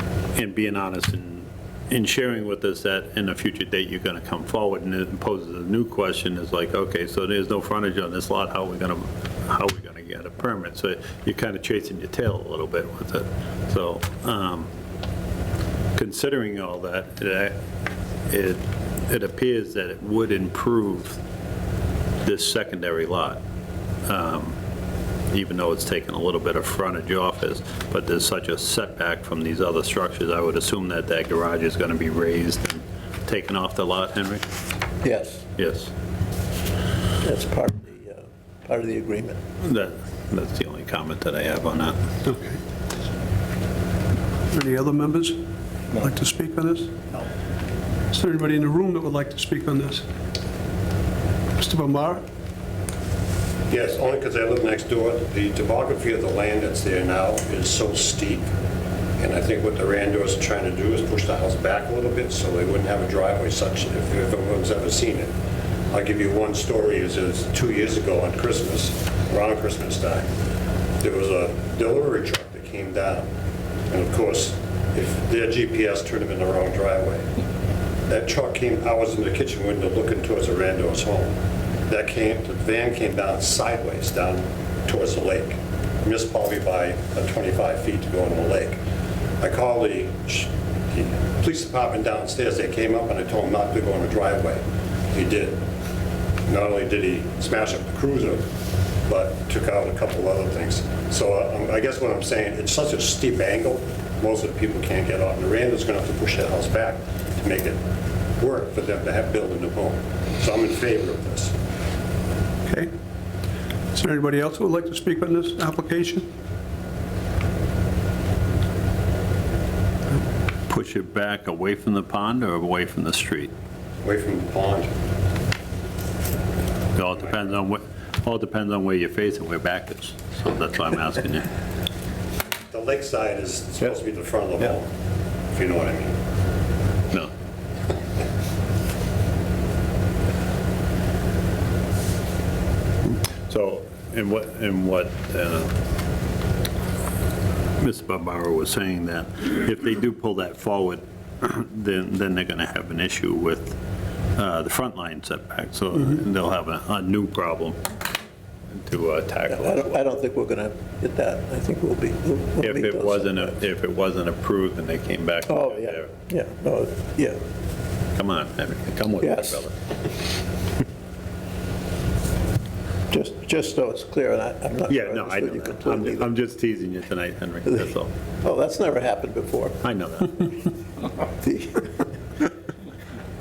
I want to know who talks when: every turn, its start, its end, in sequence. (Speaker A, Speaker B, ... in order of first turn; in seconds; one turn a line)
Speaker A: 0.3-14.7
Speaker A: 15.9-17.6
Speaker A: 18.3-21.2
Speaker A: 22.2-23.4
Speaker A: 24.1-24.6
Speaker A: 25.3-34.4
Speaker B: 35.0-35.4
Speaker A: 35.5-35.9
Speaker B: 37.2-39.4
Speaker A: 39.6-42.0
Speaker C: 42.2-42.6
Speaker C: 44.5-45.4
Speaker C: 46.0-46.9
Speaker C: 48.1-50.0
Speaker C: 51.6-52.2
Speaker D: 53.7-58.5
Speaker D: 59.2-65.3
Speaker D: 65.9-70.3
Speaker D: 71.0-73.3
Speaker D: 73.9-77.3
Speaker D: 78.1-81.4
Speaker D: 81.9-88.8
Speaker D: 89.4-95.6
Speaker D: 96.5-98.5
Speaker D: 99.1-107.8
Speaker D: 108.4-111.5
Speaker C: 113.9-116.3
Speaker A: 120.7-123.5
Speaker D: 124.0-124.9
Speaker A: 126.9-131.5
Speaker D: 132.7-134.9
Speaker D: 135.5-136.2
Speaker A: 143.1-145.7
Speaker A: 147.8-153.8
Speaker A: 154.3-157.8
Speaker A: 158.7-160.0
Speaker B: 159.5-163.5
Speaker A: 162.6-166.1
Speaker B: 165.5-167.4
Speaker A: 168.2-169.7
Speaker B: 169.2-169.6
Speaker B: 173.1-176.3
Speaker A: 174.9-178.1
Speaker B: 178.4-179.8
Speaker A: 179.8-180.6
Speaker B: 181.4-182.5